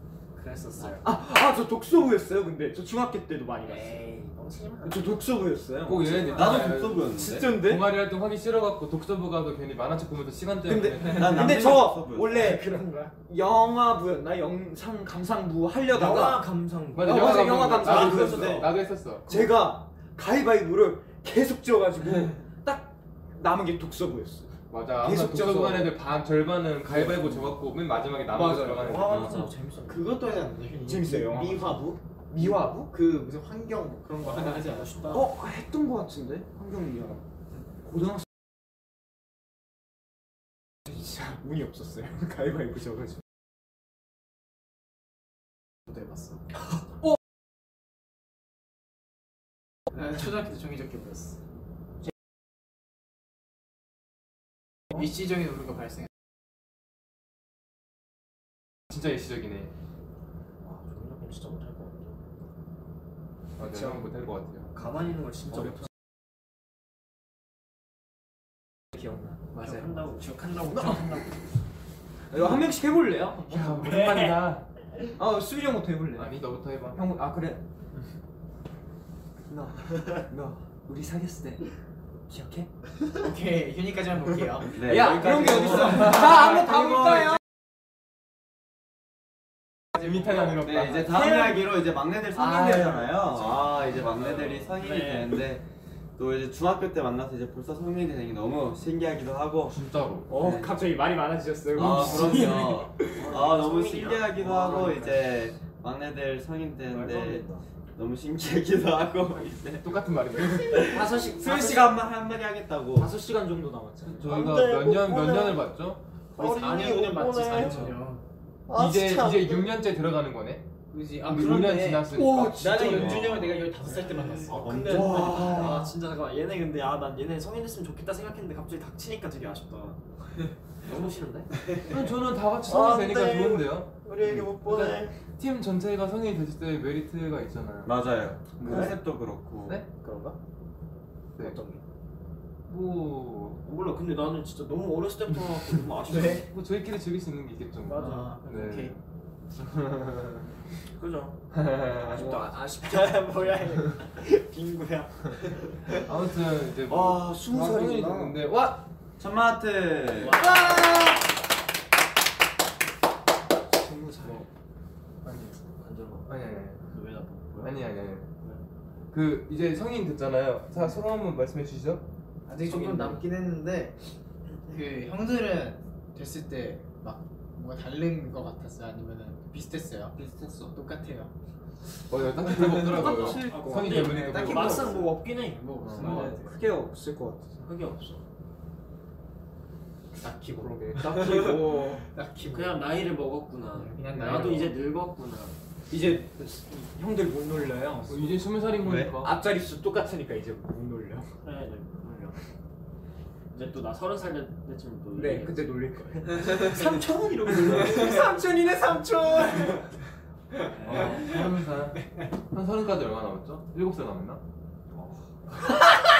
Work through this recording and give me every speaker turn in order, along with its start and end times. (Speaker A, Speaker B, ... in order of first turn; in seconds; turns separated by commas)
Speaker A: 0.3-1.1, Speaker B: 1.0-4.0, Speaker A: 3.6-5.2, Speaker B: 4.8-6.4, Speaker C: 5.8-11.9, Speaker A: 6.0-6.7, Speaker D: 6.3-7.6, Speaker B: 7.1-7.9, Speaker B: 10.6-16.5, Speaker D: 11.1-12.6, Speaker A: 12.4-13.1, Speaker A: 15.9-18.7, Speaker C: 16.9-19.5, Speaker B: 17.0-18.7, Speaker B: 19.3-26.0, Speaker C: 24.7-29.5, Speaker B: 26.9-27.6, Speaker B: 28.3-29.5, Speaker A: 28.7-30.2, Speaker E: 28.8-29.3, Speaker E: 29.8-31.7, Speaker B: 30.8-32.9, Speaker C: 31.3-31.8, Speaker E: 32.3-35.3, Speaker A: 34.2-35.3, Speaker B: 35.1-37.2, Speaker B: 37.9-38.2, Speaker B: 40.9-43.2, Speaker E: 45.9-46.4, Speaker E: 49.9-51.4, Speaker E: 55.0-55.9, Speaker C: 58.9-59.7, Speaker A: 60.6-62.2, Speaker C: 63.6-64.7, Speaker B: 63.6-64.0, Speaker A: 64.7-65.8, Speaker B: 68.9-70.0, Speaker A: 69.6-71.4, Speaker B: 70.7-71.1, Speaker B: 72.3-74.0, Speaker C: 73.5-74.6, Speaker A: 73.8-74.6, Speaker B: 75.2-76.4, Speaker C: 76.1-77.0, Speaker B: 76.9-77.6, Speaker B: 79.5-81.7, Speaker B: 82.3-82.7, Speaker E: 83.2-84.8, Speaker D: 84.7-86.7, Speaker B: 84.8-87.3, Speaker C: 86.2-86.6, Speaker C: 90.0-91.5, Speaker D: 90.6-95.6, Speaker B: 91.2-91.7, Speaker B: 92.3-93.5, Speaker A: 94.2-95.3, Speaker D: 96.2-100.7, Speaker C: 99.7-100.3, Speaker B: 100.3-103.3, Speaker D: 101.7-113.1, Speaker C: 102.0-102.3, Speaker A: 103.1-105.0, Speaker B: 104.4-105.2, Speaker A: 106.9-107.6, Speaker C: 109.8-111.1, Speaker B: 110.8-111.9, Speaker A: 110.8-111.6, Speaker B: 113.0-114.3, Speaker C: 114.1-116.0, Speaker A: 114.2-115.6, Speaker A: 116.3-118.0, Speaker E: 116.3-118.2, Speaker A: 118.7-119.7, Speaker C: 118.7-120.6, Speaker E: 120.9-125.9, Speaker C: 121.2-122.7, Speaker B: 122.1-123.2, Speaker A: 122.6-130.0, Speaker D: 122.9-123.4, Speaker D: 124.5-125.7, Speaker B: 125.0-125.6, Speaker A: 130.8-131.9, Speaker C: 131.9-137.9, Speaker A: 132.7-135.2, Speaker D: 137.8-139.8, Speaker C: 138.6-138.9, Speaker A: 138.6-138.9, Speaker A: 140.0-140.4, Speaker A: 141.4-141.8, Speaker C: 142.7-143.6, Speaker A: 143.6-146.5, Speaker E: 146.1-146.4, Speaker C: 146.4-149.0, Speaker A: 147.9-148.4, Speaker E: 147.9-148.9, Speaker C: 149.6-150.4, Speaker A: 151.0-151.4, Speaker C: 151.5-152.3, Speaker A: 151.9-156.0, Speaker B: 152.1-153.5, Speaker C: 155.9-158.9, Speaker A: 156.9-158.2, Speaker D: 159.2-160.4, Speaker A: 160.1-161.3, Speaker B: 160.5-161.2, Speaker B: 163.7-164.5, Speaker A: 165.8-166.3, Speaker C: 166.2-166.8, Speaker A: 166.8-167.8, Speaker C: 167.6-168.3, Speaker C: 169.1-172.0, Speaker E: 172.4-173.9, Speaker A: 172.7-173.2, Speaker E: 174.7-180.2, Speaker D: 180.2-180.7, Speaker E: 180.7-181.3, Speaker C: 182.1-185.0, Speaker B: 182.6-185.0, Speaker A: 182.9-186.2, Speaker E: 184.3-186.6, Speaker B: 185.9-187.7, Speaker A: 187.6-188.2, Speaker E: 190.2-192.9, Speaker B: 190.6-192.1, Speaker A: 192.5-195.6, Speaker E: 193.8-194.8, Speaker B: 195.9-201.3, Speaker C: 198.1-199.4, Speaker D: 198.8-199.1, Speaker A: 201.4-202.4, Speaker A: 203.5-206.8, Speaker B: 205.1-209.8, Speaker D: 207.7-208.0, Speaker A: 210.7-211.3, Speaker C: 210.8-214.4, Speaker A: 214.9-215.2